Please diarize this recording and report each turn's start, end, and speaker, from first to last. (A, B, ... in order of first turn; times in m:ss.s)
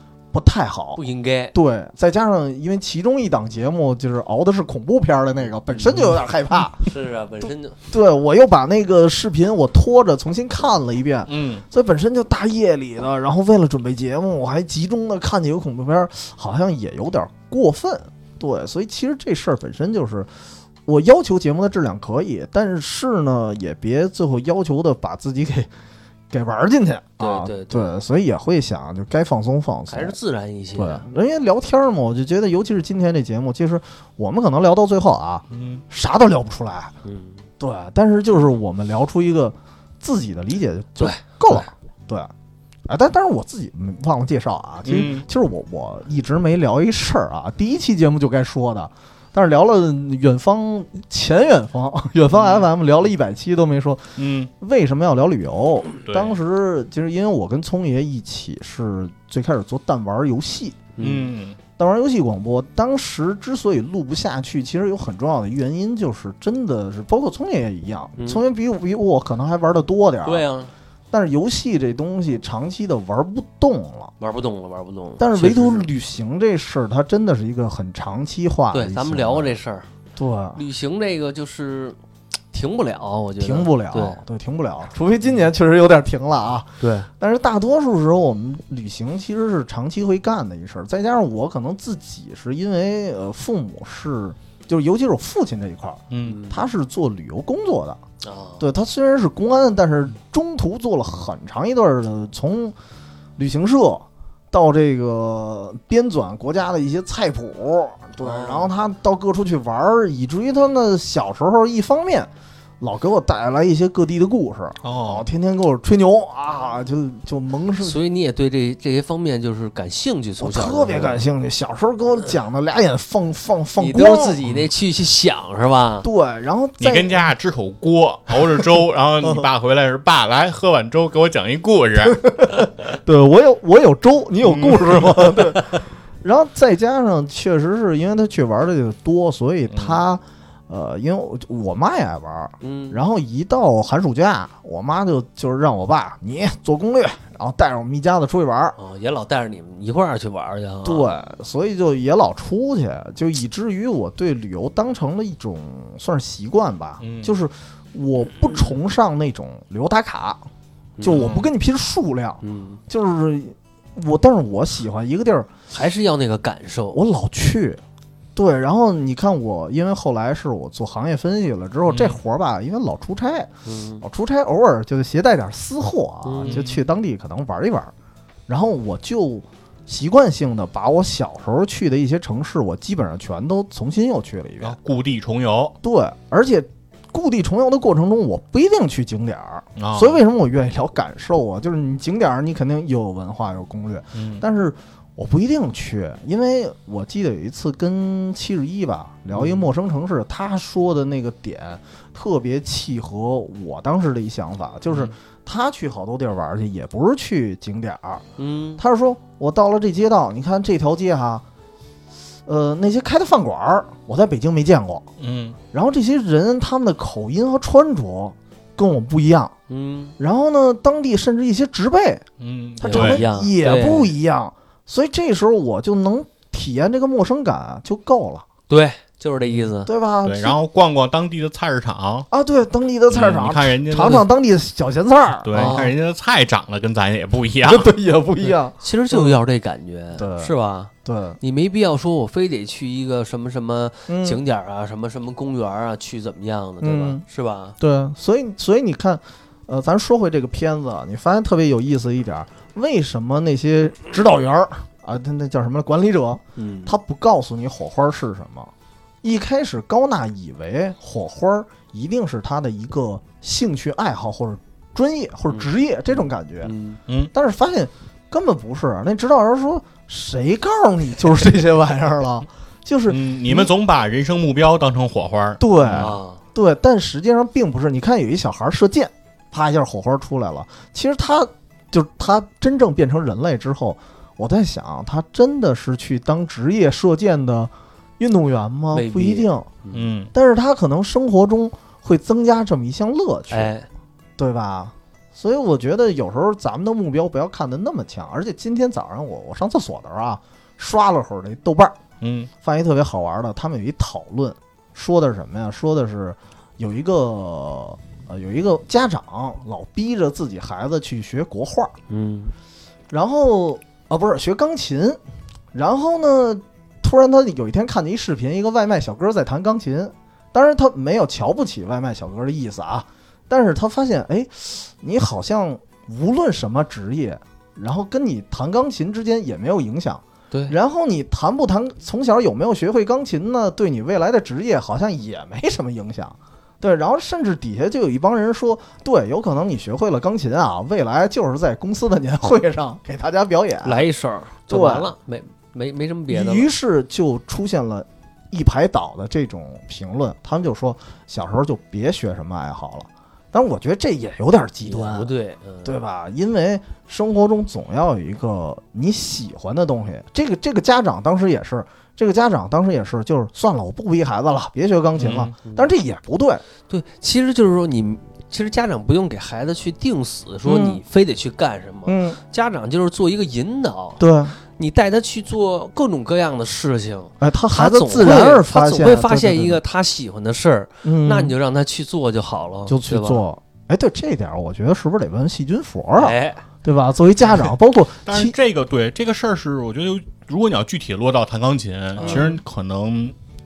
0:00.3-0:01.0 A
0:01.0-0:01.6 B
0:01.5-0:06.9 A
0:05.7-0:06.1 B
0:06.8-0:07.8 B
0:07.4-0:20.3 A
0:11.3-0:11.6 C
0:20.9-0:25.7 A
0:26.3-0:30.2 A
0:27.2-0:28.0 B
0:29.9-0:31.0 B
0:30.8-0:36.9 A
0:35.5-0:35.8 C
0:37.0-0:37.4 B
0:37.6-0:42.3 A
0:41.0-0:41.7 B
0:42.9-1:00.9 A
0:44.8-0:45.3 C
0:52.3-0:52.7 C
0:54.2-0:54.5 C
0:56.1-0:56.4 C
1:01.0-1:01.3 B
1:01.0-1:01.6 C
1:01.8-1:10.4 A
1:08.2-1:08.4 B
1:10.2-1:10.7 B
1:11.1-1:14.1 A
1:14.2-1:15.9 B
1:15.2-1:19.6 A
1:18.7-1:19.9 B
1:20.2-1:20.6 A
1:20.6-1:22.0 B
1:22.5-1:24.2 B
1:23.4-1:38.0 A
1:26.8-1:27.1 B
1:36.1-1:36.4 C
1:36.2-1:36.7 B
1:38.2-1:38.6 B
1:38.6-1:42.8 A
1:43.4-1:52.3 A
1:48.2-1:48.7 B
1:52.8-1:58.0 A
1:54.8-1:55.3 C
1:57.8-2:01.2 B
2:00.4-2:04.4 A
2:03.8-2:06.1 B
2:06.0-2:07.3 A
2:06.8-2:12.3 C
2:12.0-2:28.8 A
2:14.4-2:15.3 C
2:19.7-2:20.0 C
2:22.6-2:23.0 B
2:28.8-2:31.1 B
2:30.8-2:40.4 A
2:37.0-2:37.4 C
2:41.0-2:41.3 B
2:41.0-2:45.5 A
2:41.1-2:41.5 C
2:42.4-2:42.8 B
2:45.7-2:47.0 B
2:46.9-2:47.8 A
2:48.4-2:53.5 A
2:51.9-2:52.2 C
2:53.6-2:54.0 B
2:54.0-2:57.9 A
2:56.2-2:56.6 B
2:56.4-2:56.8 C
2:58.5-3:04.8 A
3:04.6-3:05.8 C
3:05.8-3:28.2 A
3:09.8-3:10.2 C
3:14.2-3:14.4 C
3:19.3-3:19.7 B
3:28.4-3:28.8 B
3:28.8-3:31.4 A
3:32.5-3:35.0 A
3:35.2-3:35.6 C
3:35.7-3:39.5 A
3:39.7-3:40.2 B
3:40.2-3:42.2 A
3:42.4-3:43.2 C
3:42.8-3:48.4 A
3:42.9-3:44.1 B
3:48.7-3:49.9 B
3:49.8-3:50.6 A
3:50.2-3:52.3 C
3:52.3-3:55.8 A
3:53.1-3:54.3 C
3:55.4-3:57.9 C
3:55.5-3:55.9 B
3:57.6-3:59.4 A
3:58.4-4:07.8 B
4:00.2-4:00.5 A
4:01.0-4:01.4 A
4:04.1-4:04.4 A
4:06.8-4:07.2 A
4:07.8-4:18.7 A
4:16.6-4:16.9 B
4:19.2-4:26.7 A
4:26.6-4:27.0 B
4:27.3-4:33.7 A
4:33.1-4:36.2 C
4:35.6-4:49.7 A
4:35.9-4:36.4 B
4:48.9-4:50.1 B
4:49.9-4:50.3 C
4:50.3-4:53.7 A
4:53.5-4:53.9 B
4:54.4-5:02.0 A
5:02.2-5:02.5 C
5:02.6-5:11.9 A
5:12.1-5:12.5 B
5:13.1-5:15.2 A
5:15.7-5:44.0 A
5:43.8-5:46.7 B
5:44.7-5:45.1 A
5:46.3-5:55.3 A
5:54.8-5:56.0 B
5:55.8-6:06.6 A
6:05.2-6:05.5 C
6:06.9-6:23.4 B
6:10.6-6:11.0 A
6:12.1-6:12.4 A
6:14.2-6:14.6 A
6:17.4-6:19.8 A
6:21.0-6:21.5 A
6:22.9-6:28.6 A
6:26.2-6:26.6 B
6:28.2-6:33.4 C
6:32.2-6:32.6 B
6:32.2-6:32.6 A